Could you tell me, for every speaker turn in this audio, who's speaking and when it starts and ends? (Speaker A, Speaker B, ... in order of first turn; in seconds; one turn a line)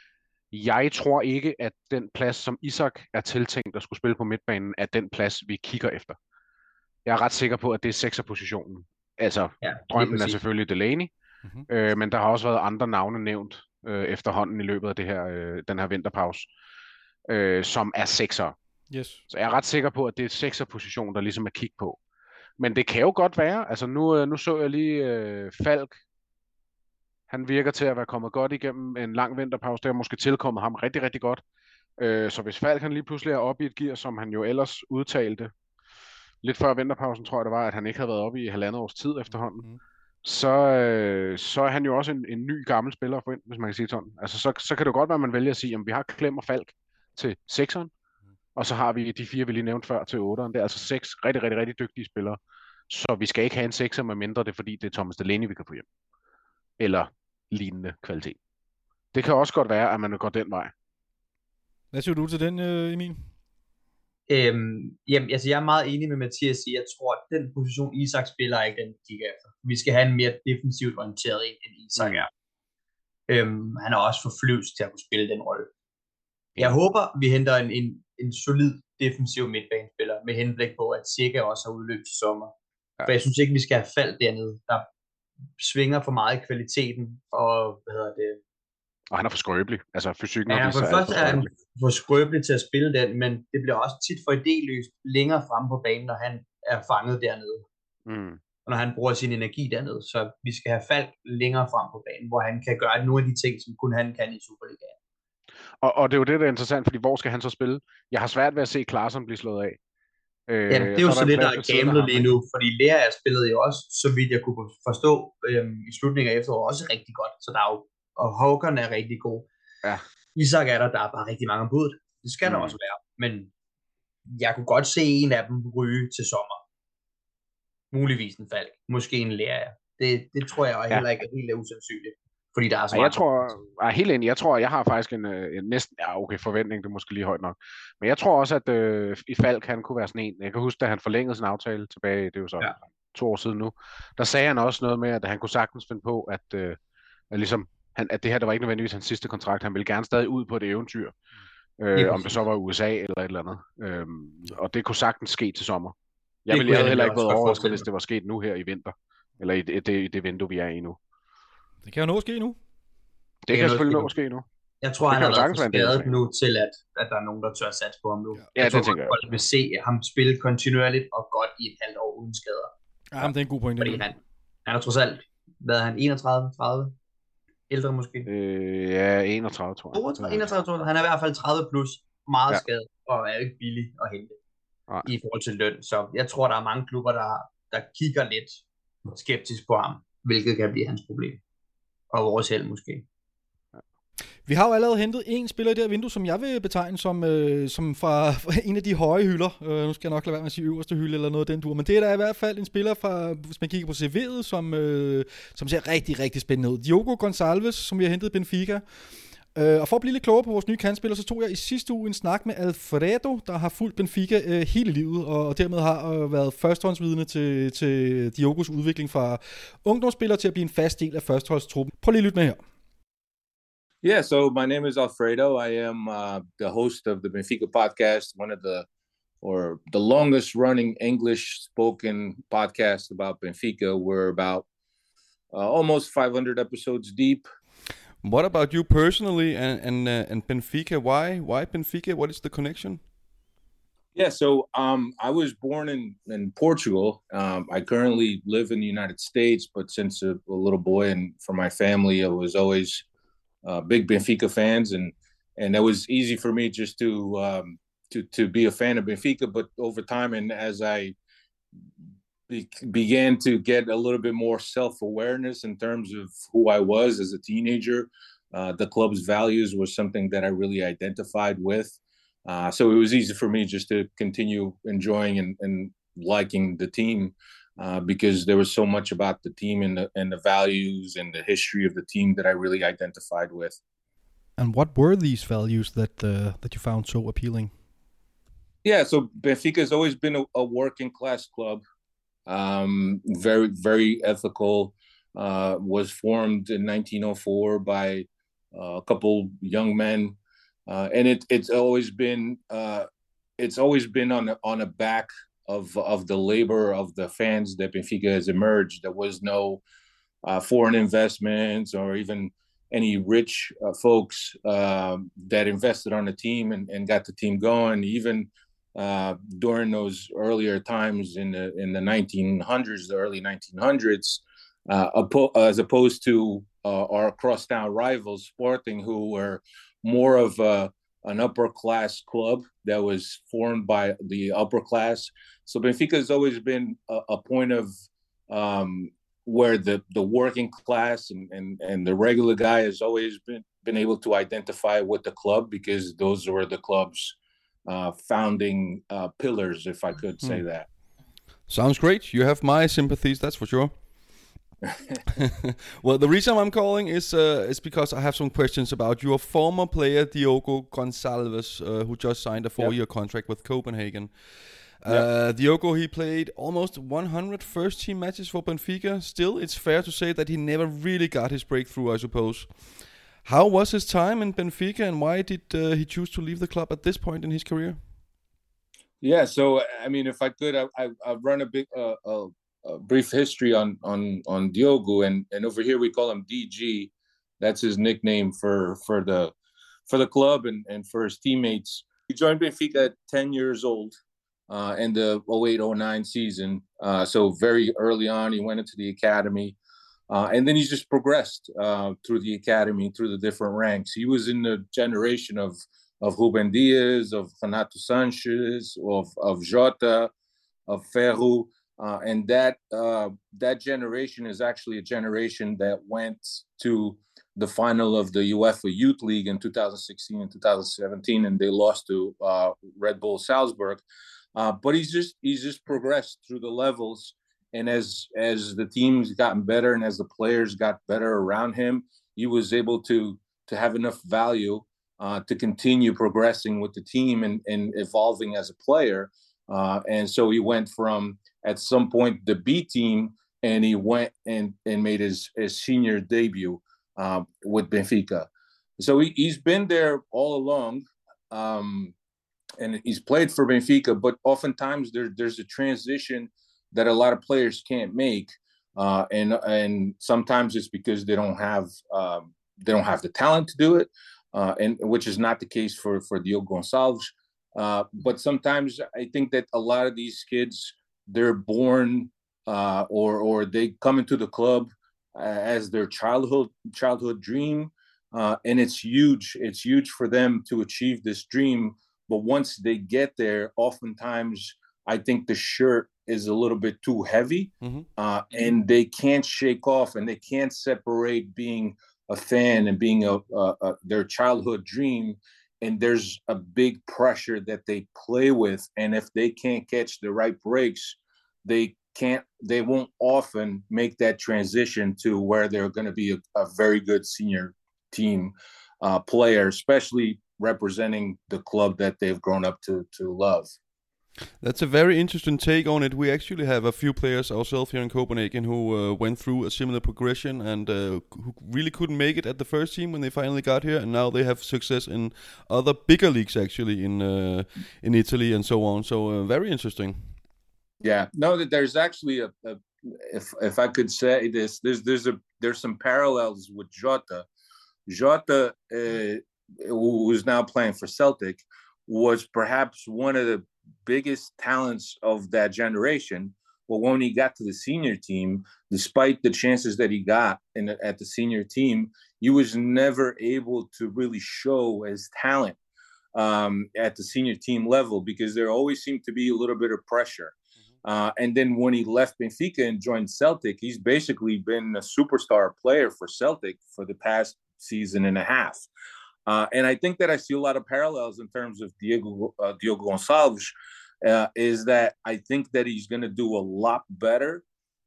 Speaker A: 0.5-6.2
Speaker A: 7.0-11.1
Speaker B: 9.6-10.4
Speaker A: 11.7-16.5
Speaker A: 17.3-18.5
Speaker C: 18.9-19.2
Speaker A: 19.3-22.0
Speaker A: 22.6-26.0
Speaker A: 27.3-31.4
Speaker A: 32.0-35.5
Speaker A: 36.4-39.6
Speaker A: 40.2-47.9
Speaker A: 48.5-55.8
Speaker A: 56.8-58.4
Speaker A: 59.1-60.7
Speaker C: 61.9-63.3
Speaker B: 64.3-72.3
Speaker A: 72.0-72.2
Speaker B: 73.3-75.7
Speaker B: 76.6-82.5
Speaker B: 83.0-84.9
Speaker B: 85.6-88.4
Speaker A: 89.1-91.5
Speaker B: 90.5-97.7
Speaker A: 98.1-98.4
Speaker B: 98.7-105.0
Speaker A: 105.8-109.8
Speaker A: 110.5-112.3
Speaker B: 110.7-119.5
Speaker B: 120.3-123.5
Speaker A: 122.4-122.8
Speaker B: 124.3-126.6
Speaker B: 127.9-133.6
Speaker A: 132.9-146.8
Speaker A: 147.3-151.2
Speaker A: 151.8-155.9
Speaker B: 151.9-152.4
Speaker A: 156.4-161.0
Speaker B: 156.5-157.8
Speaker C: 161.8-162.6
Speaker A: 163.5-164.4
Speaker B: 163.5-164.1
Speaker B: 164.8-176.9
Speaker A: 165.1-166.2
Speaker A: 168.6-169.2
Speaker C: 173.1-174.1
Speaker B: 177.7-178.3
Speaker A: 178.2-180.5
Speaker B: 179.9-184.4
Speaker B: 185.0-191.4
Speaker B: 192.1-193.1
Speaker C: 194.4-208.8
Speaker C: 209.5-222.6
Speaker D: 224.0-228.8
Speaker D: 229.4-234.7
Speaker D: 235.5-237.4
Speaker E: 238.2-243.0
Speaker D: 244.1-253.0
Speaker D: 253.6-261.1
Speaker D: 262.5-283.8
Speaker C: 284.6-287.7
Speaker D: 288.8-291.8
Speaker D: 292.4-303.1
Speaker D: 303.6-309.8
Speaker D: 310.4-337.9
Speaker D: 338.5-350.9
Speaker E: 351.7-354.0
Speaker E: 355.4-378.1
Speaker D: 379.2-389.5
Speaker D: 390.1-394.1
Speaker D: 394.7-399.8
Speaker D: 400.3-410.3
Speaker D: 410.9-424.0
Speaker D: 424.5-448.5
Speaker D: 449.0-452.1
Speaker D: 452.8-513.7
Speaker E: 487.8-488.1
Speaker E: 514.6-530.4
Speaker D: 531.0-537.5
Speaker D: 538.1-555.8
Speaker D: 556.3-568.9
Speaker D: 569.5-573.7
Speaker D: 574.2-577.6